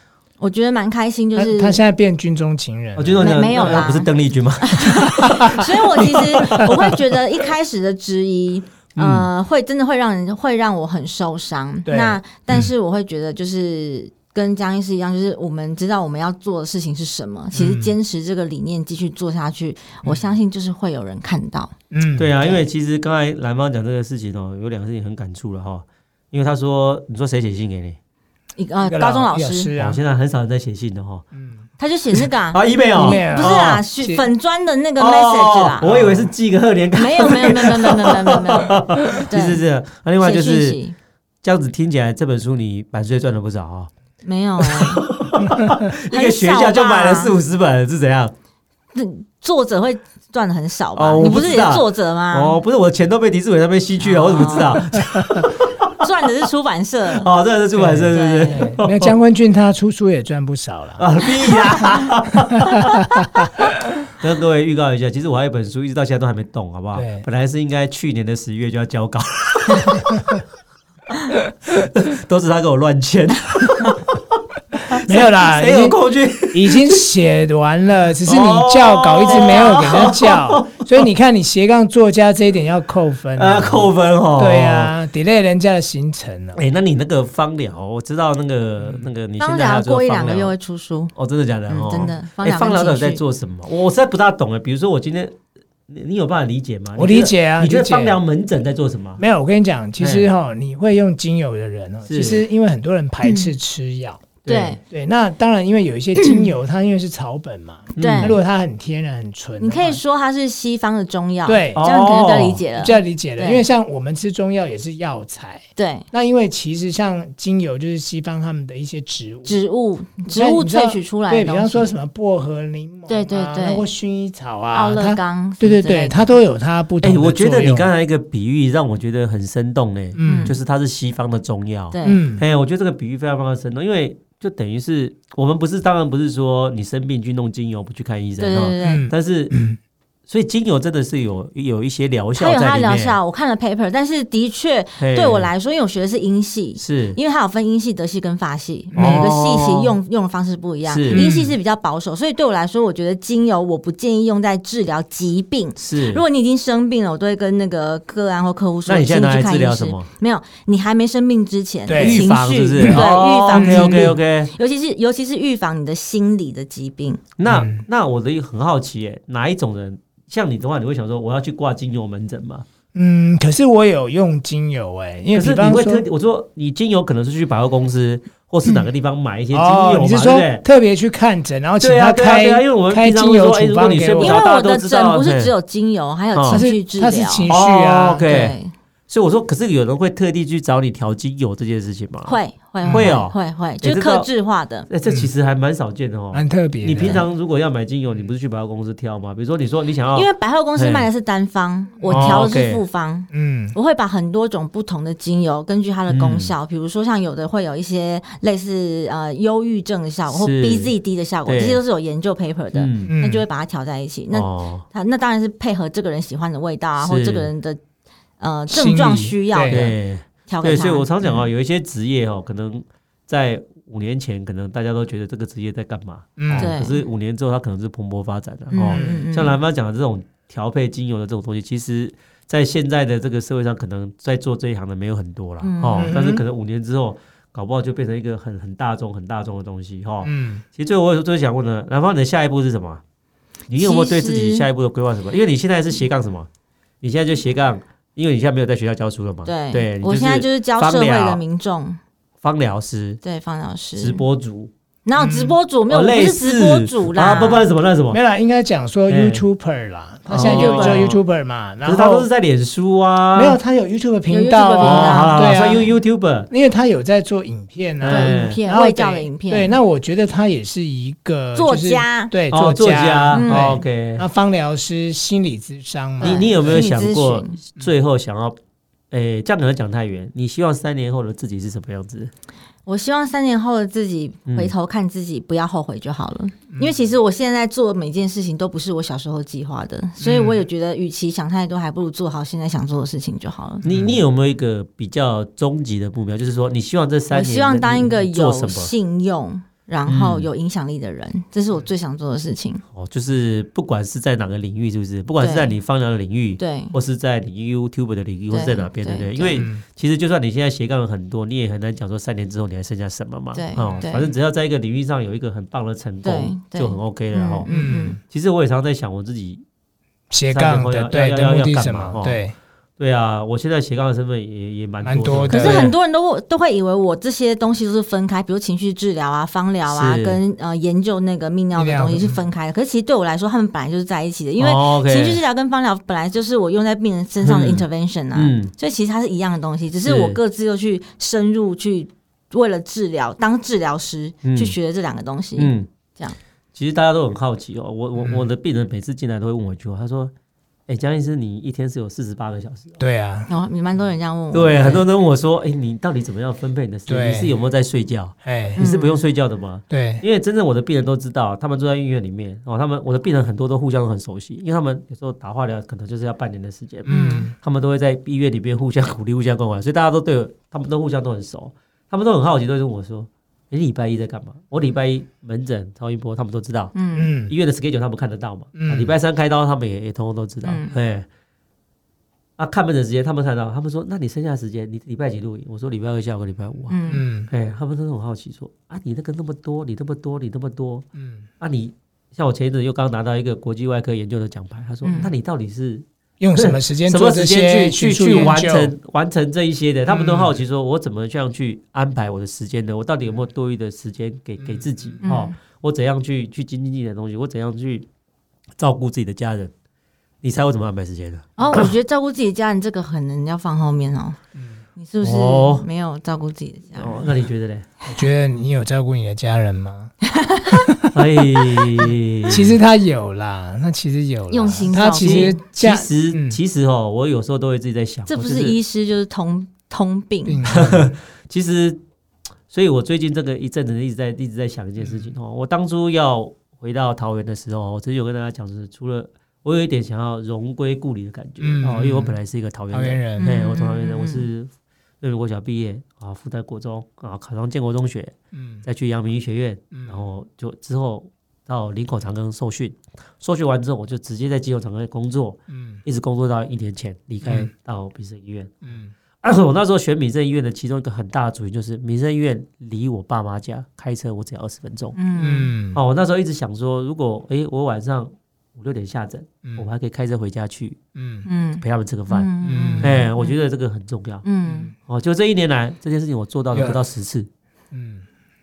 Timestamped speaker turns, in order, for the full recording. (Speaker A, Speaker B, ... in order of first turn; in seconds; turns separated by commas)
Speaker A: 0.4-1.8, Speaker B: 1.4-3.9, Speaker C: 3.0-7.0, Speaker A: 3.2-4.1, Speaker A: 4.6-21.7, Speaker B: 6.4-6.7, Speaker C: 9.0-9.3, Speaker B: 11.9-12.7, Speaker B: 17.5-17.9, Speaker B: 21.9-22.6, Speaker C: 22.2-28.0, Speaker A: 28.6-29.7, Speaker B: 28.8-30.0, Speaker C: 29.8-31.3, Speaker B: 31.3-31.6, Speaker A: 31.8-35.9, Speaker C: 32.5-33.8, Speaker B: 33.0-34.2, Speaker C: 35.0-40.8, Speaker B: 35.8-36.3, Speaker A: 37.0-39.6, Speaker A: 40.2-41.0, Speaker C: 41.4-43.9, Speaker A: 44.2-45.1, Speaker C: 44.6-48.3, Speaker A: 46.1-47.4, Speaker A: 48.9-52.6, Speaker C: 51.0-55.9, Speaker A: 54.0-54.8, Speaker A: 56.0-57.3, Speaker C: 57.1-59.1, Speaker B: 57.8-61.1, Speaker A: 58.1-58.7, Speaker C: 61.0-63.5, Speaker C: 64.1-70.4, Speaker B: 66.9-67.2, Speaker C: 71.7-74.2, Speaker C: 74.9-77.0, Speaker B: 74.9-76.0, Speaker B: 76.5-86.6, Speaker C: 78.3-81.0, Speaker A: 79.3-80.1, Speaker C: 83.4-84.9, Speaker C: 86.6-90.5, Speaker A: 89.4-91.1, Speaker C: 91.2-95.4, Speaker A: 91.7-93.2, Speaker C: 95.9-99.2, Speaker B: 97.0-98.2, Speaker B: 99.2-104.3, Speaker C: 100.0-100.3, Speaker C: 102.0-102.5, Speaker A: 103.2-103.5, Speaker C: 104.5-104.8, Speaker A: 104.5-104.8, Speaker B: 104.9-110.0, Speaker C: 108.0-108.4, Speaker A: 108.0-108.4, Speaker A: 109.6-113.7, Speaker B: 111.5-111.8, Speaker C: 111.8-112.6, Speaker B: 112.8-119.6, Speaker A: 115.8-116.1, Speaker A: 119.5-121.9, Speaker B: 120.3-127.9, Speaker A: 123.1-123.9, Speaker A: 124.7-126.3, Speaker C: 127.0-139.6, Speaker B: 130.2-130.5, Speaker A: 130.2-130.6, Speaker A: 131.9-132.2, Speaker B: 132.0-132.4, Speaker A: 138.4-139.1, Speaker B: 138.8-139.8, Speaker C: 140.3-143.2, Speaker A: 142.4-167.2, Speaker C: 145.0-145.5, Speaker C: 146.8-147.2, Speaker B: 148.9-149.2, Speaker C: 148.9-150.0, Speaker C: 150.9-151.3, Speaker B: 151.1-151.6, Speaker C: 155.8-156.2, Speaker C: 158.9-160.1, Speaker B: 161.9-164.2, Speaker C: 161.9-164.5, Speaker C: 167.4-172.7, Speaker B: 167.4-167.8, Speaker B: 172.9-176.0, Speaker C: 175.3-180.7, Speaker B: 179.5-184.4, Speaker C: 181.8-185.5, Speaker A: 184.2-187.5, Speaker C: 186.3-186.6, Speaker B: 186.5-188.3, Speaker C: 187.5-188.6, Speaker A: 188.2-188.7, Speaker C: 189.1-194.3, Speaker A: 192.3-194.9, Speaker B: 192.8-193.2, Speaker C: 194.9-201.1, Speaker B: 195.1-195.3, Speaker B: 196.3-197.2, Speaker A: 200.1-217.8, Speaker C: 202.1-202.8, Speaker B: 203.3-203.8, Speaker C: 206.1-206.5, Speaker C: 210.3-210.9, Speaker C: 211.5-211.8, Speaker C: 212.7-213.2, Speaker B: 213.1-213.4, Speaker C: 214.3-214.9, Speaker C: 217.0-217.5, Speaker A: 218.4-219.9, Speaker B: 218.7-219.8, Speaker C: 219.7-243.0, Speaker A: 220.5-221.4, Speaker B: 226.4-226.7, Speaker A: 226.6-227.0, Speaker A: 228.7-229.6, Speaker B: 228.9-229.2, Speaker A: 235.6-236.2, Speaker B: 236.0-236.4, Speaker B: 240.2-240.6, Speaker C: 243.7-246.5, Speaker A: 243.8-244.7, Speaker C: 247.0-251.4, Speaker A: 249.5-252.0, Speaker C: 252.4-253.2, Speaker A: 253.2-254.2, Speaker C: 254.0-254.7, Speaker A: 255.1-257.7, Speaker B: 255.2-255.5, Speaker C: 255.9-258.2, Speaker B: 258.1-262.3, Speaker C: 259.1-259.4, Speaker C: 260.3-261.2, Speaker A: 260.4-261.1, Speaker C: 261.8-263.6, Speaker B: 263.4-265.9, Speaker A: 264.3-265.8, Speaker C: 264.8-266.5, Speaker B: 266.5-276.9, Speaker C: 268.0-268.6, Speaker A: 268.1-269.8, Speaker A: 271.6-272.3, Speaker C: 272.5-274.3, Speaker A: 273.3-273.8, Speaker A: 276.2-277.6, Speaker C: 276.2-278.6, Speaker C: 279.1-282.3, Speaker A: 282.9-293.9, Speaker C: 284.5-284.7, Speaker B: 290.2-290.6, Speaker C: 293.9-298.9, Speaker B: 293.9-294.2, Speaker A: 297.3-302.8, Speaker C: 300.1-300.5, Speaker C: 302.9-317.7, Speaker A: 305.4-305.7, Speaker A: 306.6-306.9, Speaker A: 308.5-309.7, Speaker B: 309.6-309.8, Speaker A: 313.5-314.3, Speaker A: 316.2-318.2, Speaker B: 317.7-318.2, Speaker C: 318.2-319.6, Speaker B: 320.3-322.6, Speaker C: 320.5-322.4, Speaker C: 323.0-325.9, Speaker B: 325.0-325.9, Speaker A: 325.5-346.4, Speaker C: 329.9-330.4, Speaker B: 331.8-332.4, Speaker C: 334.6-335.4, Speaker C: 337.4-338.7, Speaker C: 340.0-340.4, Speaker C: 344.4-344.8, Speaker C: 345.6-345.9, Speaker C: 346.8-350.3, Speaker B: 348.2-348.4, Speaker C: 350.9-353.0, Speaker B: 353.0-353.5, Speaker A: 353.5-355.1, Speaker C: 354.5-376.9, Speaker B: 357.1-357.5, Speaker B: 358.4-358.8, Speaker A: 358.8-359.2, Speaker B: 359.9-360.2, Speaker B: 367.1-367.5, Speaker A: 367.1-367.5, Speaker A: 376.9-377.3, Speaker B: 377.2-377.5, Speaker C: 377.5-381.3, Speaker B: 378.7-379.1, Speaker A: 380.6-380.9, Speaker C: 382.6-391.1, Speaker A: 386.9-387.2, Speaker B: 387.1-387.5, Speaker B: 391.1-391.5, Speaker C: 391.6-408.1, Speaker A: 395.0-395.3, Speaker B: 396.4-398.9, Speaker B: 400.1-400.6, Speaker B: 404.6-405.1, Speaker A: 405.2-405.6, Speaker C: 408.8-409.7, Speaker C: 410.4-411.9, Speaker A: 411.6-414.4, Speaker B: 414.6-414.8, Speaker A: 415.0-417.3, Speaker C: 415.2-415.9, Speaker C: 417.0-417.9, Speaker B: 418.1-420.1, Speaker A: 420.3-420.9, Speaker B: 420.7-426.6, Speaker C: 421.1-422.8, Speaker A: 424.5-425.6, Speaker C: 425.1-428.8, Speaker A: 428.3-430.6, Speaker B: 430.5-431.1, Speaker C: 430.6-432.0, Speaker C: 432.7-458.8, Speaker B: 441.6-442.4, Speaker B: 442.9-443.5, Speaker A: 443.4-444.4, Speaker B: 448.5-448.8, Speaker B: 449.9-450.2, Speaker B: 455.7-456.0, Speaker B: 457.4-457.7, Speaker B: 458.8-459.1, Speaker C: 459.4-465.2, Speaker A: 465.1-465.7, Speaker B: 465.4-466.0, Speaker C: 465.9-471.0, Speaker B: 471.1-471.5, Speaker A: 471.5-473.6, Speaker C: 471.8-477.5, Speaker B: 472.6-473.3, Speaker A: 474.4-474.9, Speaker B: 476.7-477.0, Speaker B: 477.9-478.3